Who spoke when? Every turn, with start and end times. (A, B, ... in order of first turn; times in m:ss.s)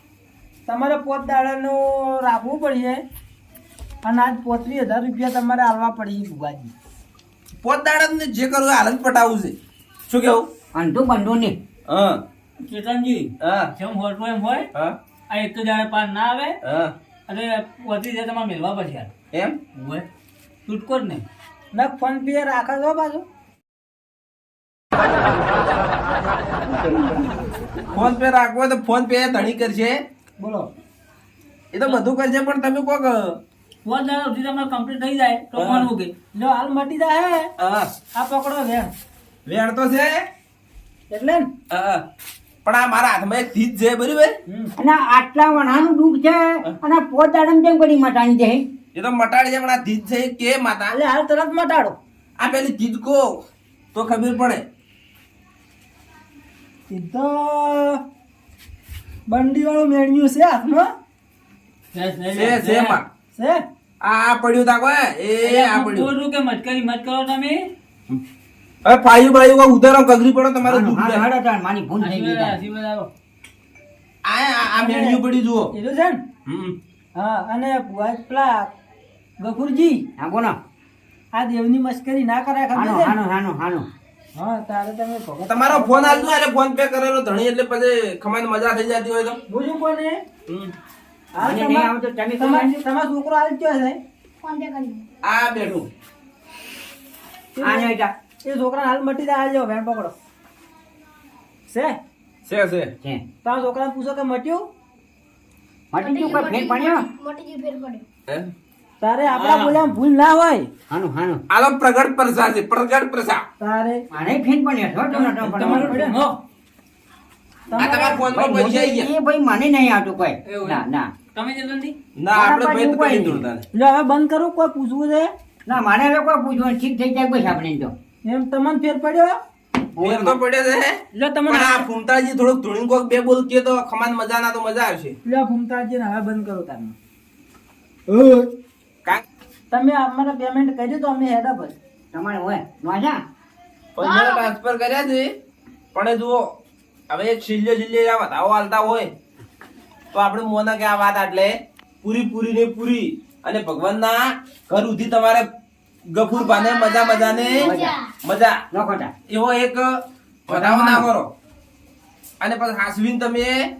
0:00.7-0:03.0 A
0:04.0-0:06.7 A
0:07.6-0:09.6 B
0:10.1-0:10.5 B
0:10.7-0:11.6 C
0:11.9-0:12.2 B
0:12.7-0:14.7 D
0:13.4-0:13.7 B
0:15.3-0:16.6 D
0:16.6-0:16.9 B
0:17.3-0:19.1 D
0:19.8-0:20.0 D
0:20.7-0:21.2 D
0:21.7-0:23.2 A
0:27.9-0:30.0 B
0:30.4-0:30.7 A
0:31.7-0:33.4 B
0:33.8-0:36.1 D
0:35.6-0:35.9 B
0:36.3-0:37.5 A
0:37.6-0:37.9 B
0:38.1-0:38.9 A
0:39.4-0:40.1 B
0:41.1-0:41.4 A
0:41.7-0:42.0 B
0:42.6-0:44.3 B
0:44.5-0:44.7 A
0:44.8-0:48.6 C
0:48.9-0:51.0 B
0:50.9-0:52.0 A
0:52.4-0:53.2 B
0:53.9-0:54.6 B
0:56.9-0:58.0 A
0:59.3-1:00.9 A
1:01.9-1:03.0 D
1:02.3-1:03.0 B
1:03.3-1:03.6 A
1:04.0-1:06.1 B
1:05.4-1:07.7 D
1:08.8-1:11.2 B
1:10.6-1:12.6 C
1:12.0-1:13.1 D
1:14.2-1:15.7 B
1:14.7-1:15.2 A
1:15.7-1:16.2 A
1:16.4-1:16.8 B
1:17.1-1:18.7 A
1:19.4-1:20.0 A
1:20.2-1:20.6 C
1:21.3-1:23.1 A
1:22.7-1:23.9 C
1:24.4-1:26.3 A
1:25.4-1:29.4 B
1:29.5-1:30.1 A
1:30.5-1:30.7 B
1:31.3-1:34.0 A
1:31.4-1:32.7 C
1:34.4-1:35.0 E
1:35.2-1:35.9 B
1:37.6-1:37.9 A
1:37.6-1:38.1 C
1:38.4-1:40.1 A
1:41.7-1:41.9 A
1:42.4-1:42.9 B
1:43.4-1:44.6 A
1:45.9-1:47.1 C
1:46.0-1:48.0 E
1:49.0-1:50.7 A
1:49.4-1:49.8 B
1:50.9-1:51.4 C
1:51.5-1:53.4 B
1:53.6-1:54.0 A
1:54.1-1:56.0 C
1:55.2-1:56.2 A
1:55.5-1:56.4 D
1:57.7-1:58.3 A
1:57.7-1:59.1 B
1:58.2-2:01.1 C
2:00.4-2:01.9 D
2:02.2-2:03.6 B
2:02.3-2:03.4 C
2:03.7-2:05.3 A
2:05.6-2:07.9 C
2:08.2-2:09.3 A
2:10.0-2:10.4 C
2:10.0-2:15.1 B
2:11.1-2:11.9 A
2:15.2-2:16.9 A
2:18.1-2:18.5 A
2:19.7-2:21.8 A
2:22.1-2:23.2 C
2:24.0-2:25.3 B
2:24.0-2:24.5 E
2:25.9-2:26.4 B
2:27.1-2:29.1 B
2:30.1-2:35.4 B
2:36.1-2:38.6 B
2:36.3-2:38.1 E
2:37.5-2:38.0 C
2:38.7-2:39.1 C
2:39.3-2:39.9 B
2:40.5-2:41.3 B
2:40.5-2:41.1 C
2:42.4-2:43.6 B